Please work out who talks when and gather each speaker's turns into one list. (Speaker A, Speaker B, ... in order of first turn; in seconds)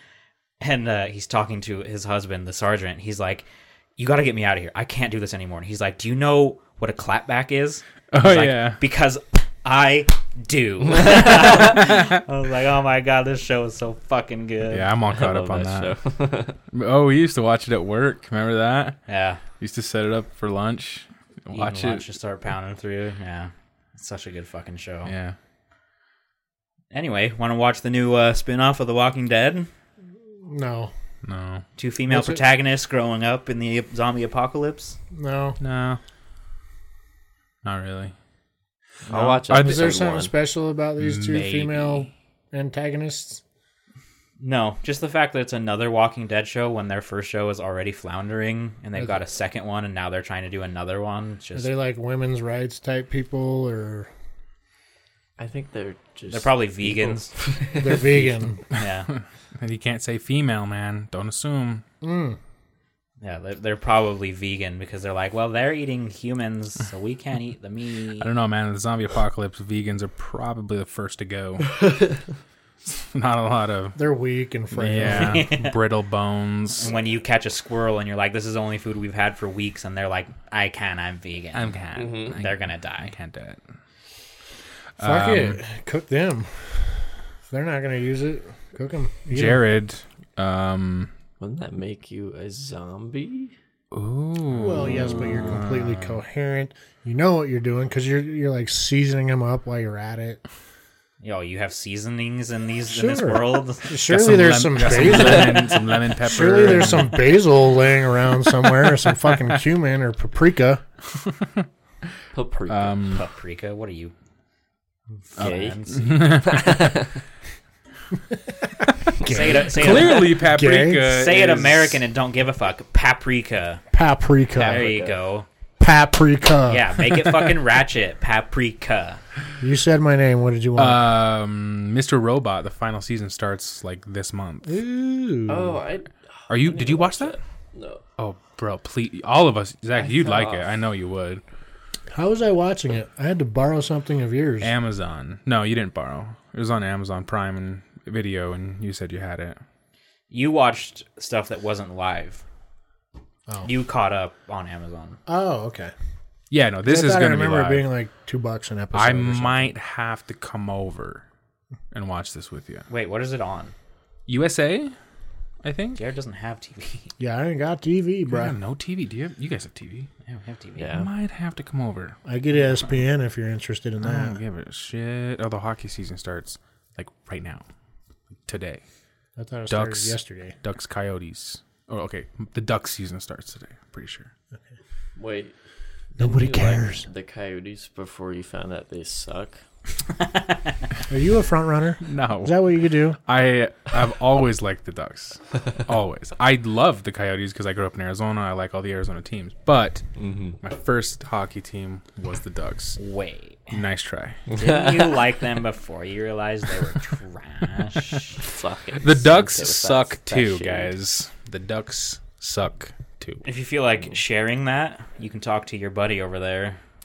Speaker A: 0.6-3.5, 4.0-14.9, 19.1-19.4, 21.5-25.1, 26.9-29.7, 31.8-35.0, 44.4-51.7, 56.3-57.3, 58.7-59.1, 63.2-68.3, 75.1-75.8, 76.8-83.1, 101.2-103.9, 104.9-105.9, 113.1-114.1, 115.1-116.2, 119.2-120.4, 121.0-123.8, 124.6-125.5, 126.7-129.2, 150.3-152.4, 153.6-155.2, 162.9-163.7, 165.9-167.1, 170.3-171.0, 190.2-190.6, 203.0-203.7, 204.6-208.4, 213.4-216.8
Speaker B: 8.1-8.8, 14.7-16.0, 16.7-19.0, 19.6-22.0, 25.0-25.4, 31.2-31.6, 35.6-36.0, 37.6-38.1, 39.1-40.0, 41.0-42.1, 59.1-61.8, 68.2-71.8, 72.8-74.0, 74.7-76.9, 81.5-83.6, 85.0-85.6, 89.3-91.1, 93.9-96.2, 104.1-107.2, 111.2-111.7, 112.7-113.2, 115.4-116.8, 119.5-122.0, 130.8-134.7, 136.5-137.3, 138.2-141.4, 144.6-149.6, 156.5-157.9, 158.9-161.2, 161.9-162.8, 164.3-164.9, 165.6-166.0, 168.3-170.1, 170.9-172.2, 174.0-177.6, 178.4-178.8, 179.7-184.3, 192.0-192.7, 193.2-200.1, 200.6-203.0, 203.7-204.4, 209.0-213.4
Speaker C: 15.1-16.6, 39.1-40.3, 55.4-58.2, 71.7-72.2, 82.0-82.4, 91.4-93.5, 112.3-113.0, 115.4-117.2, 124.7-125.2, 135.5-138.0, 140.0-140.7, 170.8-171.1, 185.2-185.5, 186.2-189.6, 200.2-200.6, 204.5-205.2, 208.4-210.9
Speaker D: 30.4-30.9, 32.1-32.4, 35.1-35.6, 39.5-43.4, 51.5-54.1, 57.8-58.6, 62.0-62.4, 74.0-75.5, 85.0-89.6, 94.5-100.4, 102.9-110.8, 119.2-121.1, 123.9-124.9, 125.8-127.0, 129.6-131.0, 134.6-135.8, 142.1-144.7, 155.3-155.9, 156.8-159.7, 167.2-168.6, 172.2-174.3, 179.4-180.6, 186.2-187.1, 191.1-193.2